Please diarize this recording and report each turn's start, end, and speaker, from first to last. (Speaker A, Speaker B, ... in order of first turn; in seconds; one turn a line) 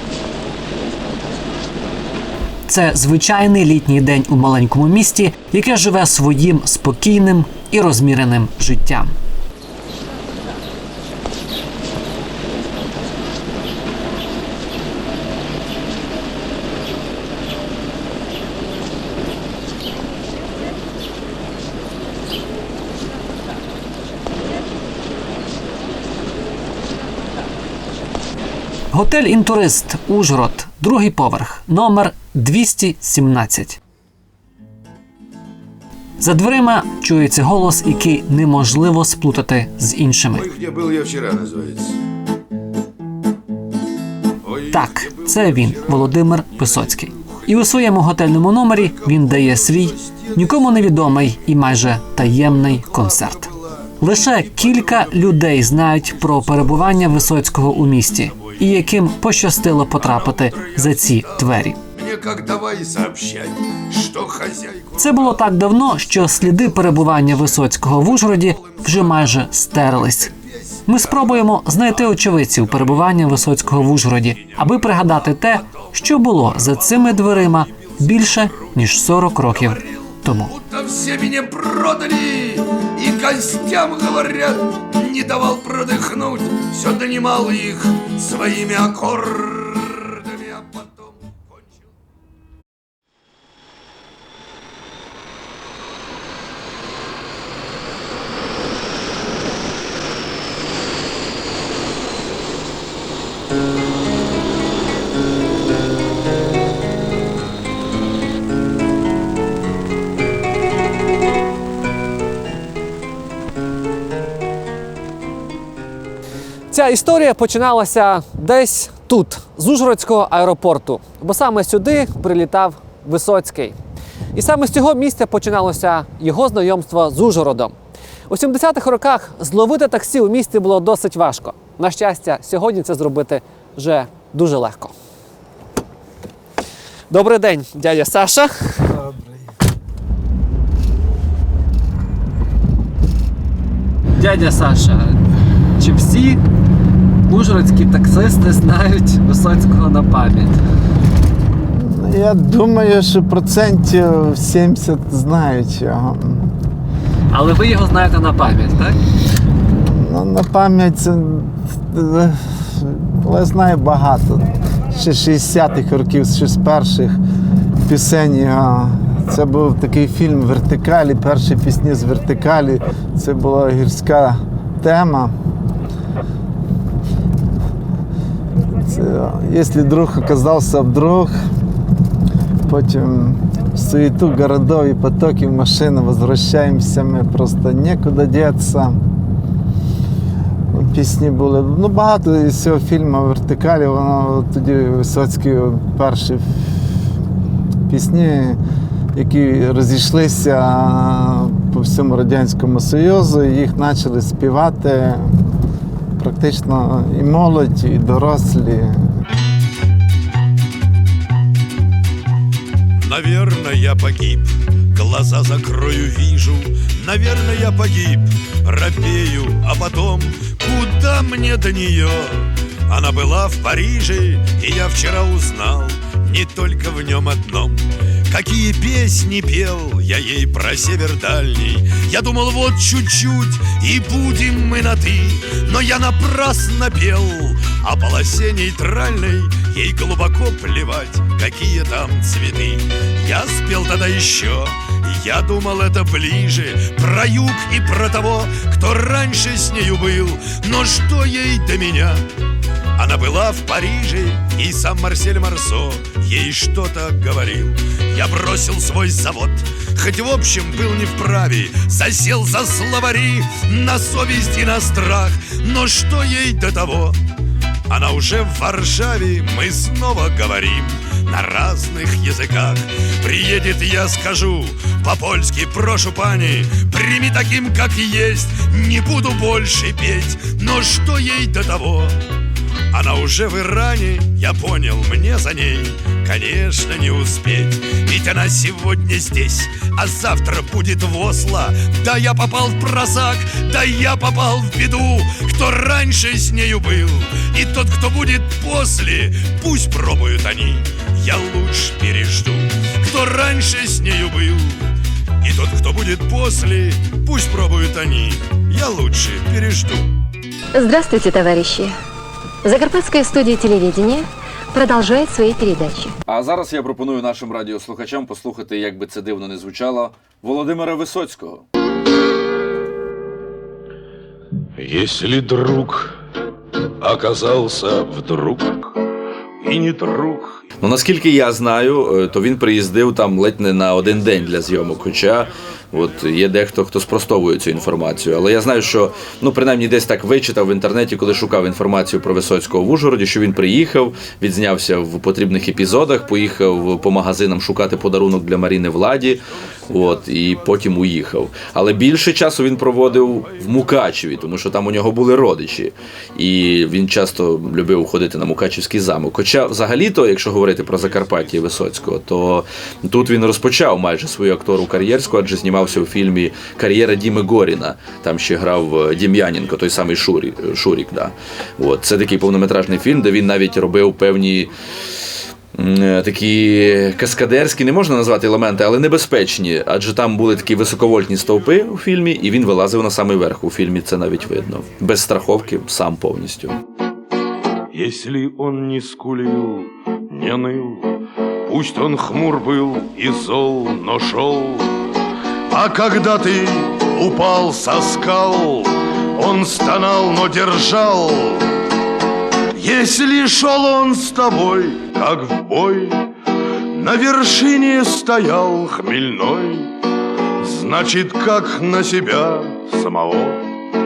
Speaker A: 2.7-9.1
Speaker A: 28.9-33.8
Speaker A: 36.2-40.5
Speaker B: 40.3-42.0
Speaker B: 44.4-47.7
Speaker A: 44.7-61.8
Speaker B: 48.7-50.6
Speaker B: 52.3-58.9
Speaker B: 59.8-69.4
Speaker A: 65.0-70.3
Speaker B: 70.2-78.8
Speaker A: 70.9-80.5
Speaker B: 79.4-91.7
Speaker A: 116.7-123.8
Speaker A: 124.3-127.8
Speaker A: 128.3-134.9
Speaker A: 137.1-139.0
Speaker A: 144.2-145.2
Speaker A: 145.8-146.4
Speaker A: 147.3-150.6
Speaker C: 151.7-156.5
Speaker A: 157.3-159.0
Speaker C: 159.8-167.2
Speaker C: 167.9-175.3
Speaker C: 178.8-181.3
Speaker C: 182.6-189.0
Speaker C: 190.7-196.5
Speaker C: 197.9-198.6
Speaker C: 199.1-205.4
Speaker C: 206.2-209.0
Speaker B: 213.0-252.2
Speaker B: 252.9-267.2
Speaker B: 267.9-282.2
Speaker B: 282.9-304.9
Speaker B: 305.4-310.1
Speaker D: 310.7-311.9
Speaker D: 312.6-316.1
Speaker E: 316.3-321.6
Speaker B: 324.8-326.2
Speaker B: 327.0-328.9
Speaker B: 329.6-330.6
Speaker E: 330.8-374.7
Speaker E: 375.7-386.8
Speaker B: 387.9-391.1
Speaker B: 391.6-394.9
Speaker B: 395.7-401.7
Speaker B: 402.7-406.2
Speaker B: 406.9-409.9
Speaker B: 410.6-413.6